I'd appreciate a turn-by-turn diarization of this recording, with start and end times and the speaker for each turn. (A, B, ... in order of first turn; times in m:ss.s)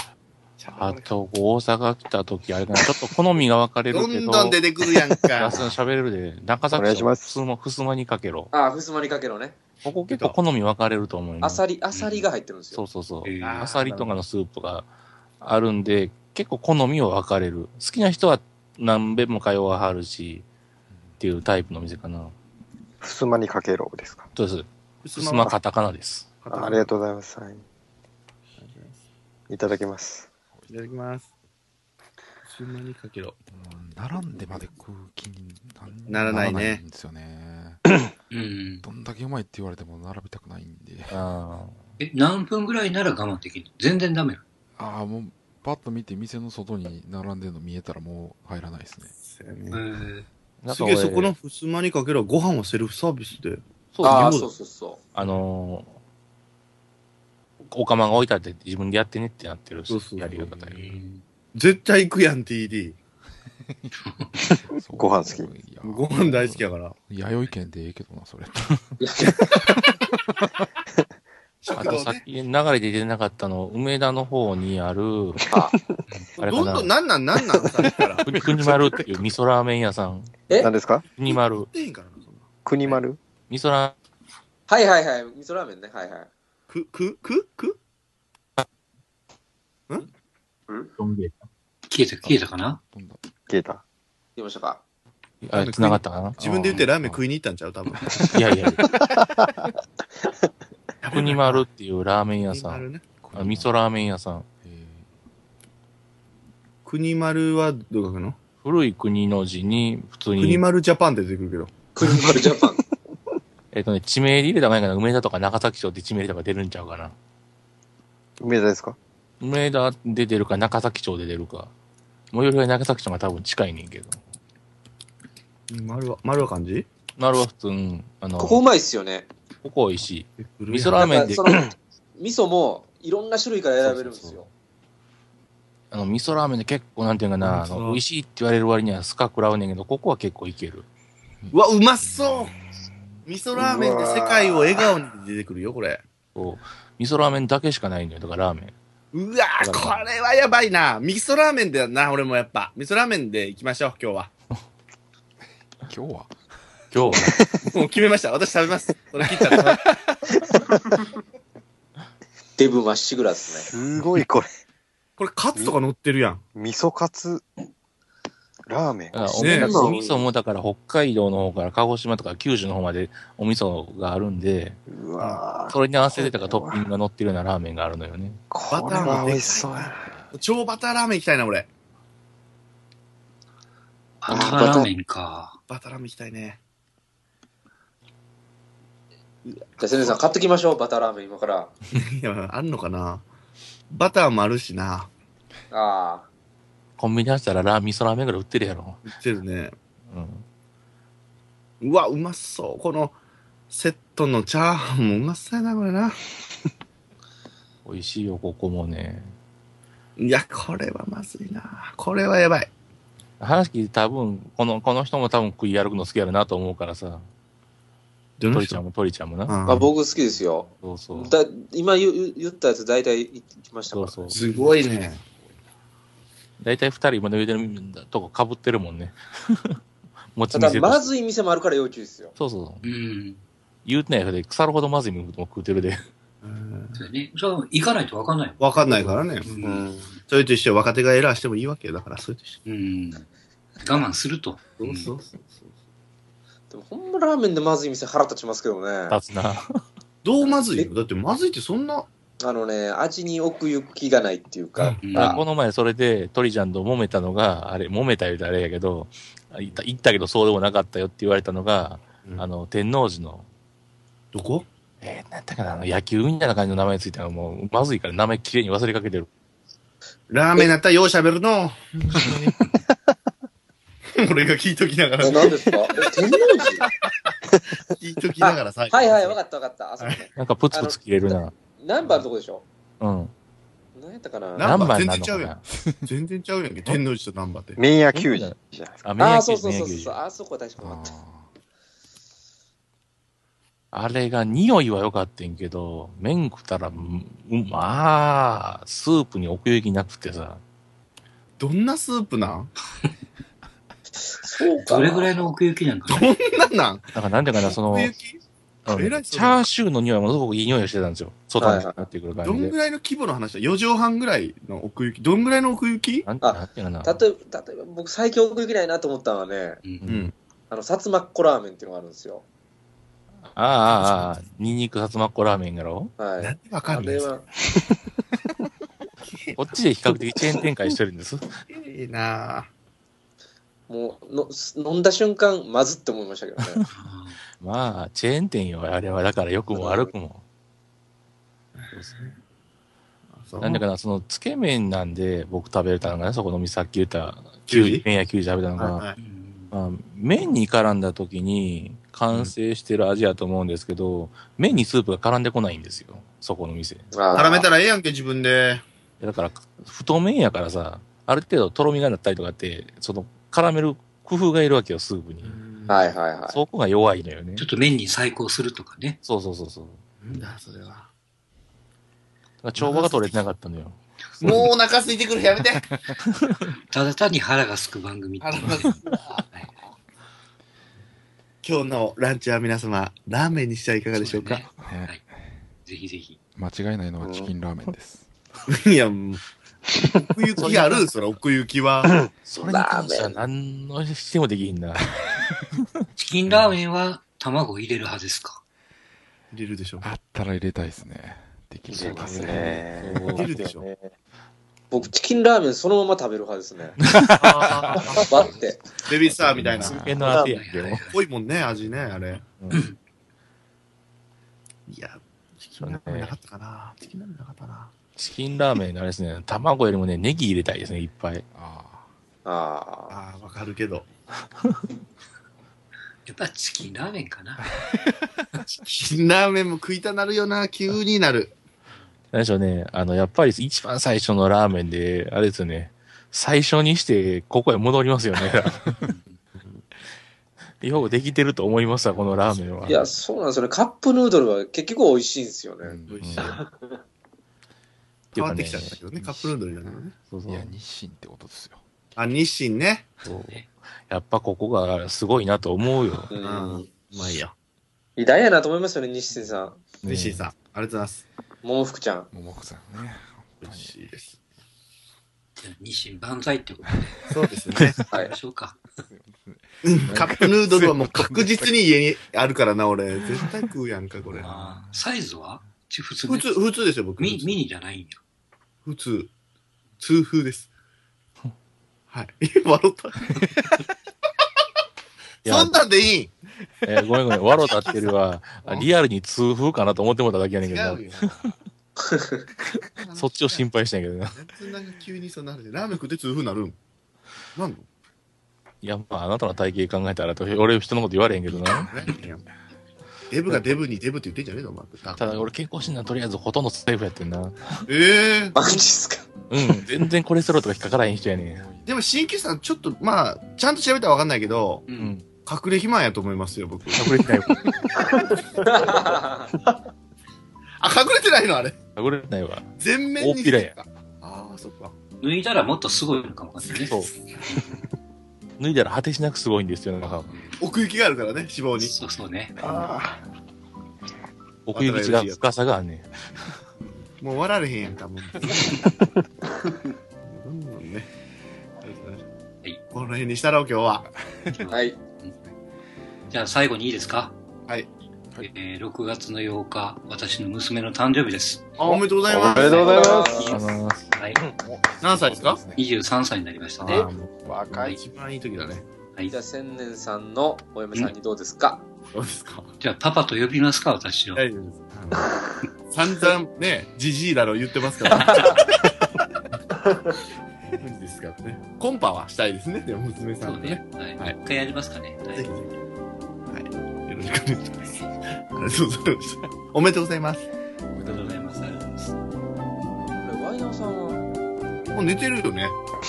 0:00.6-0:01.1 A
0:00.7-0:04.6 B
0:03.9-0:05.8 A
0:05.4-0:08.5 B
0:06.7-0:07.4 C
0:08.5-0:09.6 D
0:09.8-0:11.6 B
0:10.1-0:10.4 A
0:11.4-0:12.8 D
0:11.9-0:12.3 E
0:12.7-0:14.9 B
0:13.2-0:13.7 E
0:13.4-0:14.2 A
0:15.4-0:20.5 B
0:21.2-0:22.4 B
0:23.0-0:24.3 C
0:24.4-0:26.3 B
0:25.0-0:25.6 A
0:26.4-0:26.9 A
0:26.5-0:27.6 C
0:28.6-0:29.0 A
0:29.5-0:30.3 C
0:30.7-0:31.3 A
0:32.4-0:33.4 A
0:33.5-0:37.8 F
0:34.4-0:34.6 A
0:36.1-0:36.8 A
0:38.3-0:38.9 E
0:38.8-0:41.2 F
0:41.1-0:41.8 B
0:42.0-0:44.4 E
0:44.8-0:49.1 F
0:49.2-0:49.8 A
0:49.7-0:50.3 E
0:50.6-0:51.3 B
0:50.7-0:54.5 A
0:53.9-0:54.4 B
0:54.0-0:55.0 D
0:55.2-0:56.0 B
0:57.7-1:00.8 B
0:59.9-1:00.5 A
1:00.7-1:01.2 E
1:01.6-1:03.0 A
1:03.8-1:08.8 F
1:04.9-1:05.5 C
1:05.8-1:07.0 A
1:09.0-1:09.4 D
1:11.6-1:12.2 A
1:11.7-1:15.4 B
1:15.5-1:15.9 C
1:16.4-1:18.7 A
1:16.4-1:16.9 B
1:18.2-1:20.5 B
1:18.3-1:19.0 F
1:20.6-1:21.0 C
1:21.2-1:21.7 B
1:21.3-1:23.0 A
1:22.6-1:23.2 C
1:23.5-1:24.0 B
1:24.7-1:26.3 D
1:26.7-1:27.8 A
1:31.0-1:31.4 B
1:31.9-1:32.8 E
1:32.9-1:33.2 F
1:33.5-1:33.8 C
1:34.4-1:34.8 D
1:35.4-1:36.4 B
1:35.5-1:38.3 A
1:36.4-1:37.2 F
1:36.5-1:36.9 E
1:38.3-1:38.8 B
1:38.8-1:39.7 C
1:41.0-1:41.6 A
1:41.1-1:44.5 B
1:42.4-1:43.0 A
1:43.2-1:43.7 F
1:44.6-1:45.1 F
1:46.8-1:48.4 A
1:48.6-1:50.6 B
1:50.4-1:51.9 A
1:52.0-1:52.8 D
1:53.7-1:57.2 B
1:58.4-1:59.0 C
1:59.4-2:01.7 B
2:02.3-2:04.2 B
2:05.7-2:06.9 A
2:07.2-2:08.6 B
2:08.4-2:09.3 D
2:09.6-2:11.5 B
2:10.4-2:11.1 A
2:11.0-2:14.5 D
2:13.8-2:14.4 B
2:15.9-2:20.9 B
2:17.4-2:18.0 A
2:21.4-2:23.0 F
2:21.5-2:22.5 A
2:23.3-2:26.0 A
2:23.6-2:24.9 C
2:26.4-2:28.8 B
2:29.1-2:34.3 A
2:29.6-2:30.0 B
2:35.9-2:36.4 F
2:36.9-2:37.4 B
2:37.3-2:37.6 C
2:37.7-2:39.9 A
2:39.2-2:40.2 F
2:42.6-2:43.7 D
2:43.5-2:44.5 C
2:45.2-2:46.4 A
2:46.6-2:47.5 C
2:48.7-2:49.9 C
2:49.1-2:58.4 B
2:49.4-2:49.8 A
2:49.5-2:50.3 D
2:54.9-2:56.9 C
2:58.5-3:00.1 C
2:58.7-3:01.7 A
3:04.2-3:05.6 E
3:04.3-3:04.9 D
3:05.7-3:06.6 A
3:09.4-3:10.2 A
3:09.8-3:11.8 D
3:11.9-3:13.3 A
3:13.9-3:15.1 A
3:15.7-3:16.3 D
3:17.0-3:19.0 B
3:19.1-3:19.8 A
3:20.1-3:20.4 B
3:21.8-3:23.2 A
3:23.7-3:26.2 A
3:27.8-3:29.3 B
3:30.2-3:32.7 A
3:33.4-3:37.2 B
3:38.4-3:38.8 A
3:38.5-3:39.6 B
3:39.5-3:39.9 A
3:39.7-3:44.4 D
3:40.8-3:41.4 B
3:43.9-3:44.4 B
3:44.3-3:44.8 E
3:44.3-3:45.2 A
3:46.6-3:49.8 B
3:50.4-3:51.1 B
3:50.5-3:52.4 D
3:52.4-3:52.9 B
3:52.8-3:53.4 E
3:53.8-3:56.0 B
3:56.4-3:57.0 A
3:57.0-3:59.9 E
3:58.6-3:59.5 A
3:59.6-4:00.2 C
4:00.3-4:02.6 A
4:02.7-4:03.3 E
4:03.8-4:05.1 E
4:04.8-4:05.7 A
4:06.7-4:09.2 D
4:09.1-4:09.6 B
4:10.2-4:12.1 A
4:10.4-4:10.9 D
4:12.4-4:15.0 D
4:14.8-4:15.3 A
4:15.0-4:15.4 E
4:15.1-4:23.5 B
4:24.3-4:24.7 A
4:25.0-4:29.3 B
4:30.3-4:32.6 A
4:34.2-4:36.6 A
4:35.2-4:36.8 D
4:37.9-4:39.4 A
4:38.4-4:41.0 D
4:40.4-4:41.6 B
4:41.8-4:42.6 D
4:43.0-4:43.3 B
4:44.0-4:44.9 D
4:44.6-4:47.8 A
4:44.6-4:45.6 B
4:47.8-4:49.1 C
4:48.1-4:50.2 B
4:49.2-4:51.2 D
4:50.8-4:51.5 F
4:53.9-5:00.6 B
5:01.6-5:02.7 A
5:04.2-5:05.5 D
5:04.8-5:06.3 E
5:06.1-5:07.2 A
5:07.2-5:08.1 B
5:07.7-5:09.7 A
5:08.9-5:12.8 B
5:11.6-5:12.0 D
5:12.4-5:16.3 A
5:16.2-5:17.2 B
5:16.4-5:19.8 D
5:20.0-5:20.3 B
5:20.1-5:20.4 A
5:20.7-5:22.4 D
5:23.5-5:26.1 B
5:23.9-5:24.3 A
5:26.2-5:27.5 D
5:26.4-5:27.3 A
5:29.3-5:29.6 A
5:29.6-5:31.6 B
5:31.7-5:32.7 A
5:33.9-5:36.8 D
5:36.9-5:37.4 E
5:37.6-5:40.4 B
5:39.8-5:40.1 D
5:41.8-5:42.4 A
5:41.9-5:42.3 B
5:43.3-5:43.9 A
5:43.6-5:49.0 B
5:47.7-5:48.0 A
5:48.8-5:49.2 A
5:49.2-5:49.7 E
5:49.7-5:57.1 B
5:57.1-5:57.7 D
5:57.3-5:58.8 A
5:59.2-6:05.6 B
6:05.4-6:06.1 A
6:05.9-6:06.6 D
6:06.5-6:07.7 B
6:07.6-6:09.2 E
6:09.2-6:10.0 B
6:10.2-6:11.1 A
6:12.6-6:14.7 B
6:12.8-6:13.4 A
6:14.4-6:15.9 A
6:16.4-6:16.6 B
6:16.9-6:19.0 E
6:18.4-6:19.5 A
6:21.6-6:24.7 A
6:24.2-6:25.2 E
6:24.8-6:25.6 F
6:25.9-6:26.4 E
6:26.6-6:28.3 F
6:27.2-6:27.5 C
6:28.7-6:29.4 A
6:30.0-6:32.2 A
6:30.6-6:31.1 B
6:32.4-6:35.1 B
6:32.6-6:33.4 D
6:36.2-6:38.6 E
6:39.5-6:40.1 A
6:40.0-6:43.3 F
6:41.9-6:44.1 C
6:42.0-6:42.3 E
6:42.3-6:43.5 B
6:43.3-6:43.9 A
6:44.9-6:47.0 D
6:47.3-6:48.5 F
6:47.4-6:50.3 A
6:48.3-6:48.8 D
6:49.3-6:50.3 F
6:49.5-6:51.0 B
6:50.3-6:51.2 E
6:51.1-6:52.5 A
6:54.9-6:57.9 A
6:55.8-6:56.4 B
6:58.2-7:01.4 B
7:01.5-7:02.1 F
7:02.4-7:03.2 D
7:03.1-7:04.1 A
7:06.3-7:07.7 E
7:08.8-7:11.6 A
7:12.3-7:18.9 B
7:19.0-7:19.4 E
7:20.8-7:23.1 B
7:20.9-7:23.2 F
7:22.9-7:26.5 D
7:25.8-7:26.6 F
7:26.1-7:26.6 A
7:26.2-7:26.6 B
7:28.3-7:29.6 B
7:28.4-7:30.2 A
7:30.3-7:30.8 B
7:30.5-7:31.8 F
7:32.2-7:33.1 A
7:33.2-7:33.6 B
7:34.1-7:36.3 B
7:36.3-7:36.9 D
7:36.4-7:37.5 A
7:38.2-7:39.9 D
7:40.0-7:40.4 B
7:40.0-7:41.2 A
7:41.6-7:42.3 D
7:42.3-7:44.0 F
7:43.6-7:44.4 A
7:45.6-7:47.2 E
7:47.3-7:48.0 A
7:47.4-7:48.0 F
7:48.1-7:48.4 D
7:48.1-7:48.8 E
7:49.1-7:51.7 F
7:49.8-7:54.5 A
7:54.3-7:55.0 F
7:54.4-7:56.6 E
7:56.3-7:57.6 A
7:57.2-7:58.2 E
7:58.8-7:59.3 A
8:00.0-8:00.7 A
8:02.1-8:03.8 A
8:05.4-8:05.8 B
8:05.4-8:06.4 A
8:06.8-8:11.5 B
8:07.5-8:08.9 A
8:10.6-8:11.4 A
8:12.0-8:12.5 D
8:13.0-8:13.7 A
8:13.2-8:14.4 B
8:14.3-8:16.8 A
8:17.6-8:17.9 A
8:18.8-8:22.0 B
8:21.5-8:22.4 A
8:23.3-8:25.5 A
8:23.5-8:23.8 B
8:25.2-8:27.9 B
8:27.9-8:28.6 A
8:28.5-8:29.3 D
8:29.5-8:31.6 B
8:31.0-8:31.9 F
8:31.9-8:34.8 A
8:34.9-8:35.2 E
8:35.0-8:35.2 B
8:35.4-8:37.2 A
8:37.0-8:37.7 B
8:38.6-8:39.5 D
8:40.8-8:41.8 A
8:42.0-8:43.8 B
8:42.8-8:44.9 A
8:45.2-8:47.8 E
8:46.8-8:47.1 B
8:48.6-8:50.4 B
8:50.0-8:50.6 E
8:50.6-8:52.0 A
8:51.8-8:52.6 E
8:52.6-8:53.2 C
8:54.7-8:56.4 B
8:54.7-8:55.4 A
8:57.2-8:58.9 A
9:00.2-9:01.1 A
9:01.8-9:02.2 A
9:02.9-9:04.1 A
9:04.6-9:05.4 E
9:04.7-9:05.0 D
9:06.3-9:07.4 E
9:08.4-9:11.8 E
9:11.8-9:13.3 A
9:11.8-9:13.6 C
9:12.5-9:13.6 D
9:12.7-9:13.6 E
9:13.5-9:14.1 B
9:14.2-9:14.4 E
9:14.6-9:15.8 F
9:15.0-9:15.6 A
9:15.8-9:17.1 E
9:16.8-9:17.1 B
9:16.8-9:18.9 A
9:17.4-9:18.0 C
9:19.3-9:21.9 D
9:22.1-9:22.7 A
9:22.8-9:24.4 E
9:24.4-9:29.0 A
9:28.2-9:28.5 E
9:28.2-9:28.6 D
9:30.8-9:34.4 A
9:33.4-9:35.6 E
9:35.4-9:35.7 A
9:36.5-9:40.5 A
9:40.9-9:41.9 F
9:41.0-9:42.0 E
9:43.2-9:44.2 D
9:44.9-9:45.8 A